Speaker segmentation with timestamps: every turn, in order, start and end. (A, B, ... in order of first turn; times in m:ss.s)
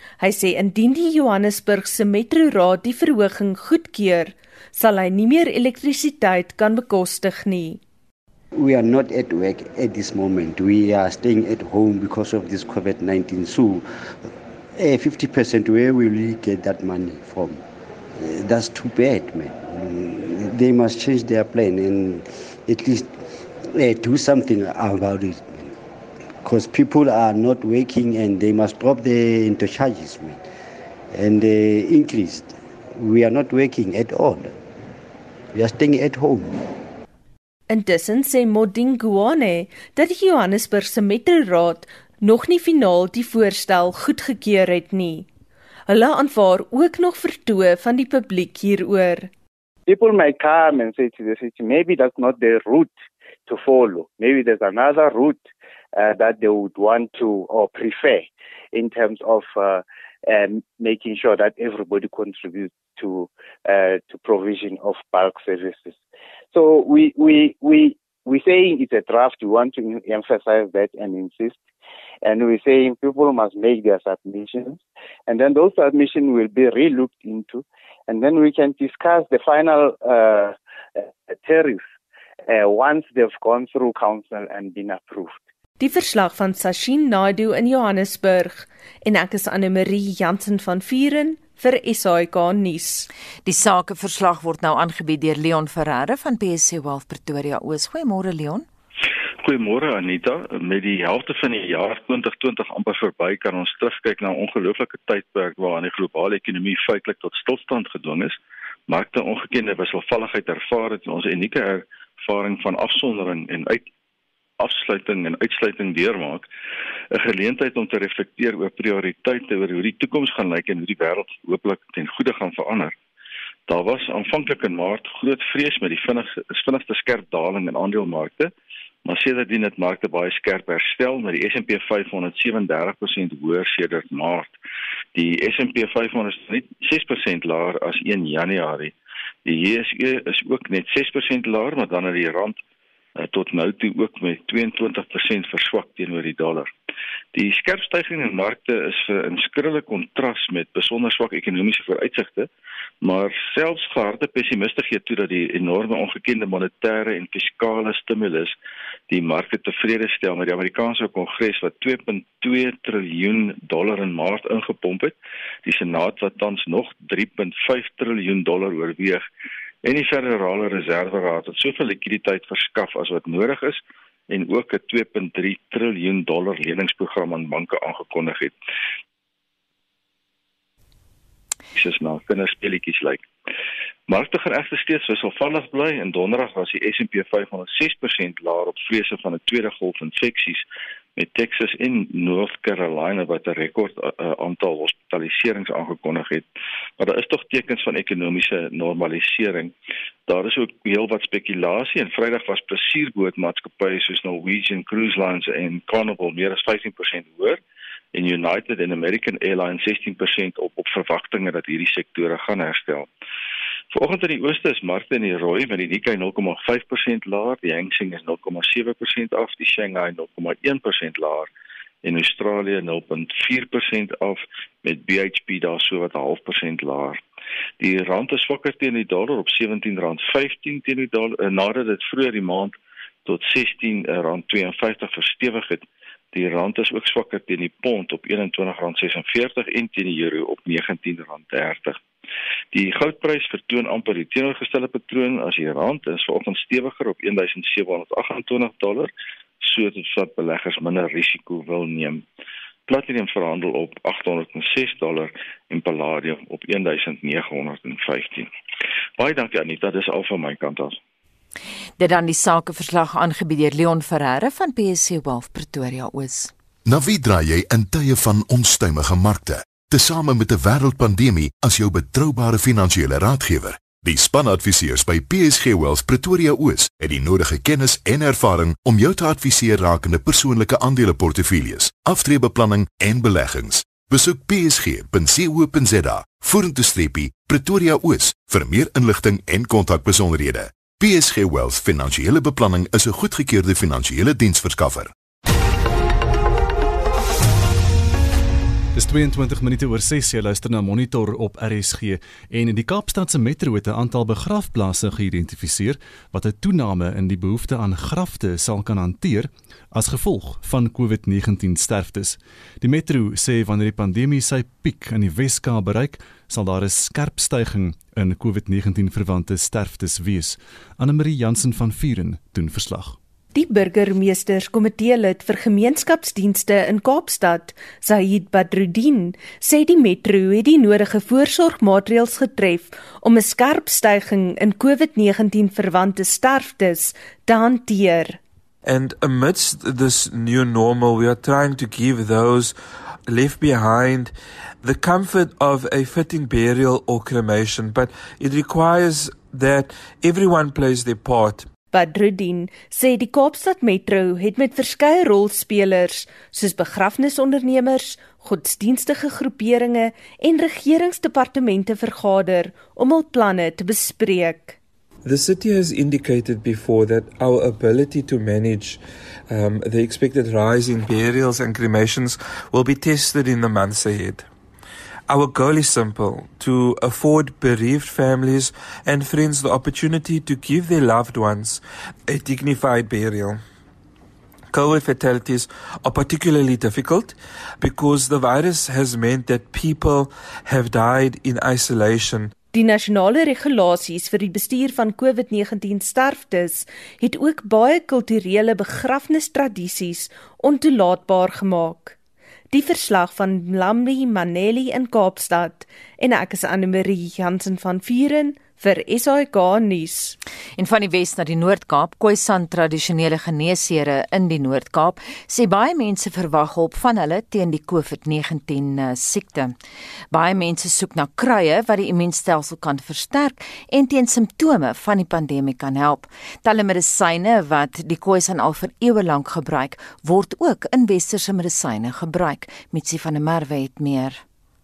0:00.2-0:07.8 A
0:08.6-0:17.6 B
0:18.2-0:25.8 B
0:26.4-0:30.4 B
0:31.1-0:34.6 B
0:35.5-0:36.6 B
0:37.7-0:45.3 A
0:45.9-0:49.3 A
0:49.9-0:52.9 C
0:53.5-1:06.0 C
1:06.5-1:11.6 C
1:12.2-1:21.8 C
1:22.5-1:25.4 C
1:25.8-1:33.1 A
1:33.5-1:38.7 D
1:39.4-1:48.4 E
1:48.9-1:53.8 E
1:54.6-1:56.5 E
1:57.1-2:02.9 E
2:03.7-2:08.5 E
2:09.0-2:14.5 E
2:15.2-2:18.9 E
2:19.4-2:22.6 E
2:23.2-2:26.7 E
2:27.3-2:32.5 E
2:33.0-2:38.6 E
2:39.1-2:49.2 E
2:49.8-2:58.5 E
3:01.8-3:03.3 E
3:04.1-3:10.6 E
3:11.2-3:16.5 E
3:17.0-3:19.7 E
3:20.3-3:27.6 E
3:28.1-3:33.1 E
3:33.9-3:41.5 E
3:42.0-3:47.2 E
3:47.8-3:52.8 E
3:53.3-4:02.0 E
4:02.7-4:09.1 E
4:09.6-4:12.2 E
4:12.9-4:18.5 E
4:19.2-4:21.0 E
4:22.0-4:26.5 D
4:26.9-4:55.1 F
4:59.0-5:23.2 G
5:23.5-5:38.4 A
5:38.8-5:42.8 H
5:43.3-5:51.7 H
5:51.9-6:04.8 A
6:05.2-6:14.5 H
6:15.3-6:23.6 H
6:24.7-6:32.5 H
6:32.7-6:42.2 A
6:42.7-6:50.4 A
6:50.8-6:59.8 D
7:00.3-7:14.4 D